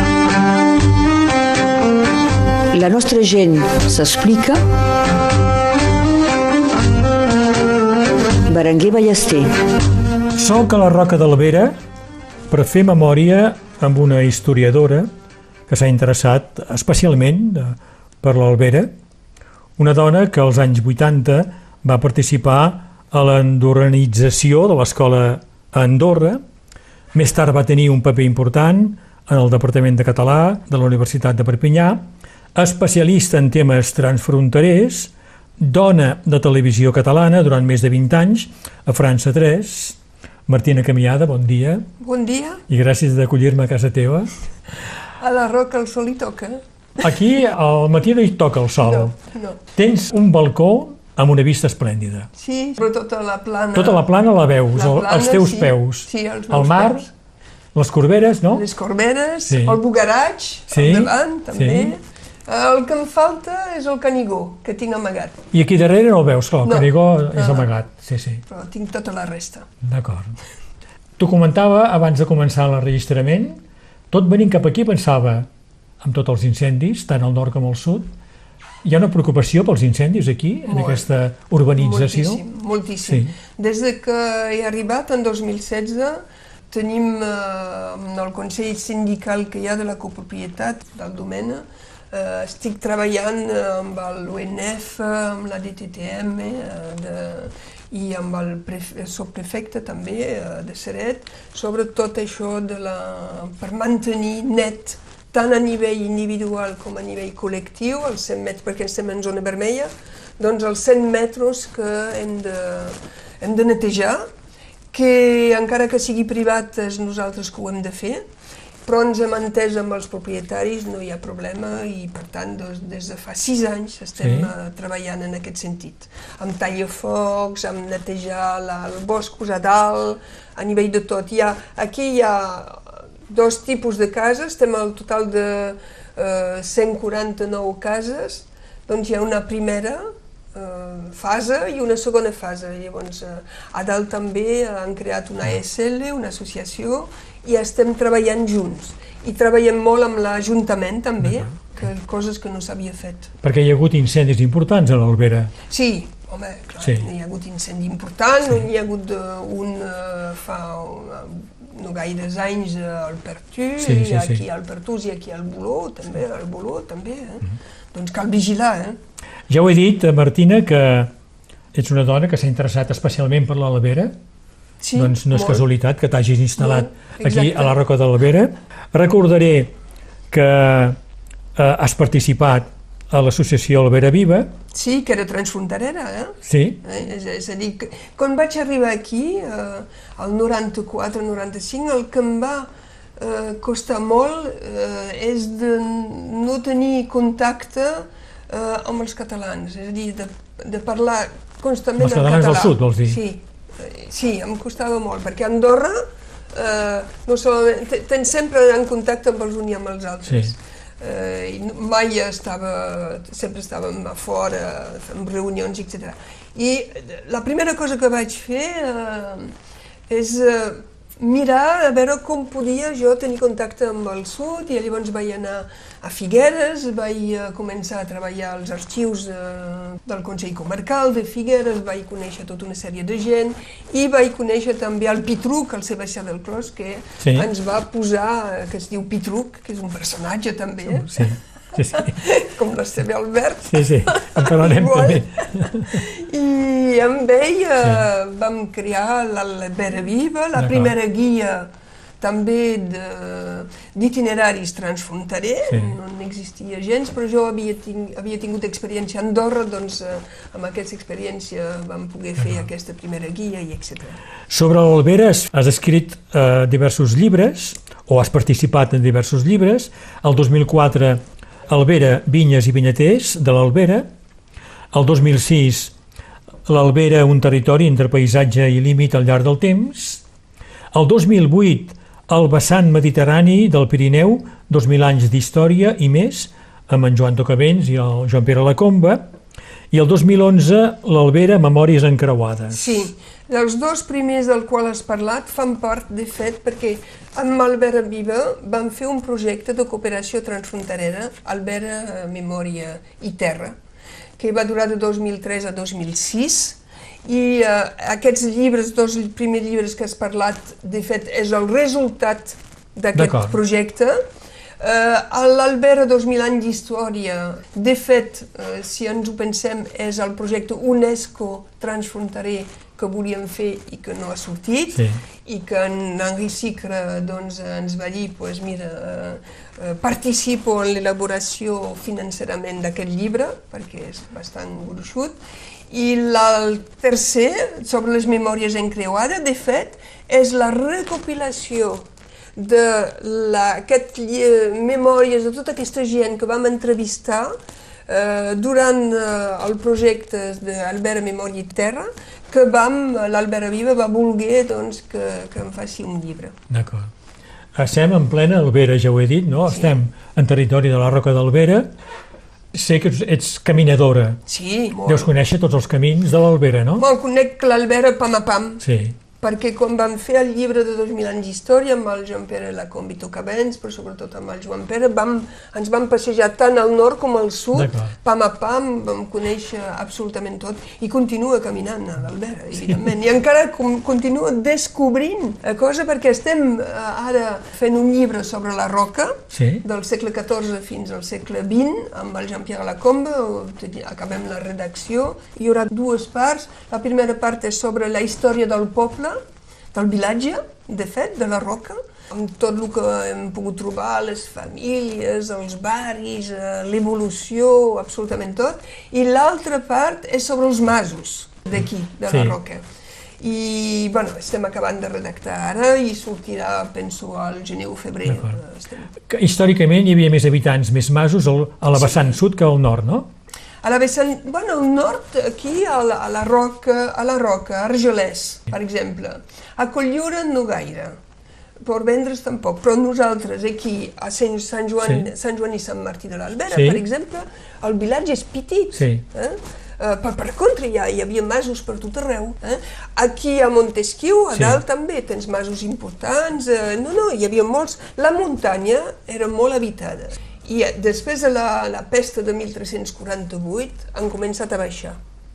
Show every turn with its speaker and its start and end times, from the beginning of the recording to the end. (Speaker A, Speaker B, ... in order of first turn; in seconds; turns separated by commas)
Speaker A: 2.7-4.6, Speaker A: 8.5-9.5, Speaker B: 10.3-11.8, Speaker B: 12.5-15.1, Speaker B: 15.7-18.9, Speaker B: 19.8-26.4, Speaker B: 27.1-41.9, Speaker C: 42.0-42.6, Speaker B: 42.7-44.3, Speaker C: 45.2-47.1, Speaker B: 47.0-49.1, Speaker C: 48.8-49.6, Speaker B: 49.7-52.3, Speaker C: 52.4-54.1, Speaker B: 53.7-57.1, Speaker C: 54.7-57.1, Speaker B: 57.7-58.6, Speaker C: 58.5-65.4, Speaker B: 59.5-59.8, Speaker B: 60.7-61.9, Speaker B: 65.5-68.4, Speaker C: 66.6-67.7, Speaker C: 68.5-69.7, Speaker B: 69.8-70.3, Speaker B: 71.2-75.5, Speaker B: 76.0-78.1, Speaker B: 78.8-82.4, Speaker C: 80.7-81.1, Speaker C: 81.7-114.3, Speaker B: 83.0-83.3, Speaker C: 114.9-118.2, Speaker C: 118.8-153.3, Speaker B: 124.2-124.5, Speaker B: 153.4-155.5, Speaker C: 155.7-169.0, Speaker B: 156.8-157.1, Speaker B: 163.8-164.4, Speaker B: 169.5-171.1, Speaker B: 171.7-174.2, Speaker C: 174.8-175.6, Speaker B: 174.9-179.7, Speaker C: 176.6-177.8, Speaker B: 180.3-181.0, Speaker B: 181.5-184.5, Speaker C: 184.7-219.5, Speaker B: 186.4-186.8, Speaker B: 202.0-203.2, Speaker B: 210.3-210.5, Speaker C: 220.1-241.3, Speaker B: 237.2-237.5, Speaker B: 240.9-242.2, Speaker C: 241.9-251.7, Speaker B: 243.7-246.0, Speaker B: 250.6-250.9, Speaker C: 252.2-264.2, Speaker B: 255.7-255.9, Speaker B: 262.4-262.7, Speaker B: 264.5-274.1, Speaker B: 274.9-275.9, Speaker B: 276.7-280.2, Speaker B: 280.9-289.3, Speaker B: 289.9-293.1, Speaker C: 292.7-303.8, Speaker C: 304.4-314.2, Speaker B: 313.1-313.6, Speaker C: 314.8-335.4, Speaker B: 324.9-325.2, Speaker C: 335.9-347.5, Speaker C: 348.1-356.5, Speaker B: 356.7-357.1, Speaker B: 357.7-361.9, Speaker C: 359.7-359.9, Speaker B: 362.7-364.4, Speaker C: 364.5-365.3, Speaker B: 365.0-367.0, Speaker C: 367.0-368.8, Speaker B: 368.8-369.2, Speaker C: 369.4-399.4, Speaker B: 377.7-378.1, Speaker B: 389.5-389.8, Speaker C: 399.9-412.8, Speaker B: 412.3-412.6, Speaker C: 413.4-419.1, Speaker B: 418.2-418.6, Speaker B: 419.3-423.3, Speaker C: 421.9-422.4, Speaker C: 423.8-431.2, Speaker C: 431.8-455.2, Speaker B: 435.0-435.3, Speaker B: 436.7-437.0, Speaker B: 438.9-439.2, Speaker B: 444.5-444.8